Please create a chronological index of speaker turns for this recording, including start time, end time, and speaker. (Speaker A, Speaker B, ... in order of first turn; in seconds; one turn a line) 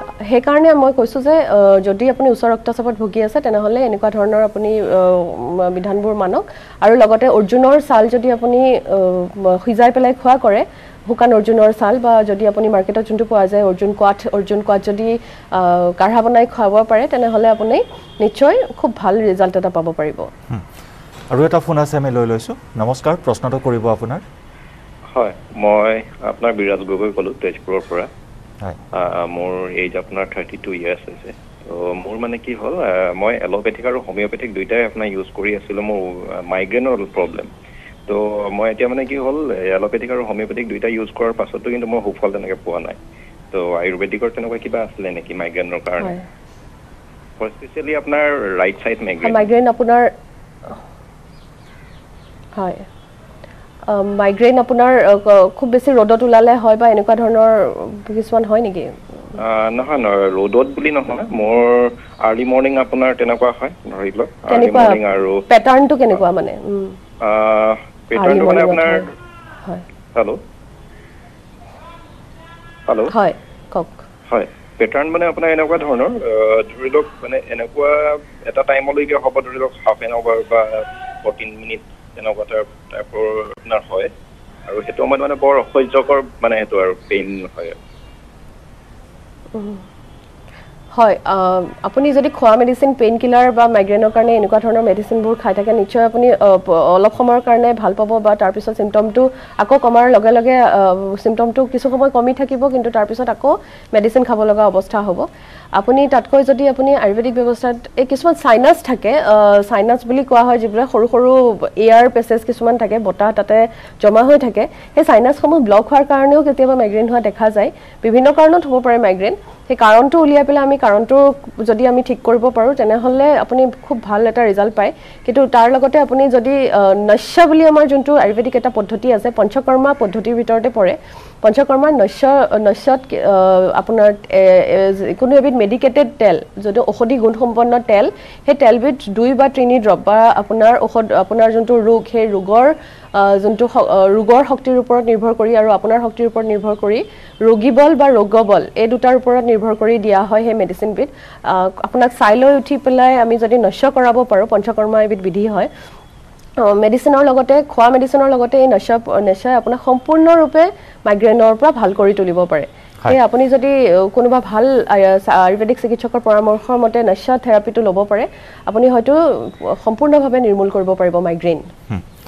Speaker A: 0.3-20.3
Speaker B: 21.3-24.2
Speaker C: 25.1-28.1
Speaker C: 28.9-37.5
Speaker C: 38.1-43.0
Speaker C: 43.5-46.2
Speaker C: 47.4-49.5
Speaker A: 49.2-50.1
Speaker A: 52.6-52.8
Speaker A: 53.9-59.0
Speaker C: 59.4-65.4
Speaker A: 64.5-67.0
Speaker C: 67.2-69.1
Speaker A: 68.2-69.1
Speaker A: 73.1-74.0
Speaker C: 74.3-84.1
Speaker C: 84.7-87.8
Speaker A: 89.5-89.8
Speaker A: 90.9-155.7
Speaker A: 156.6-171.7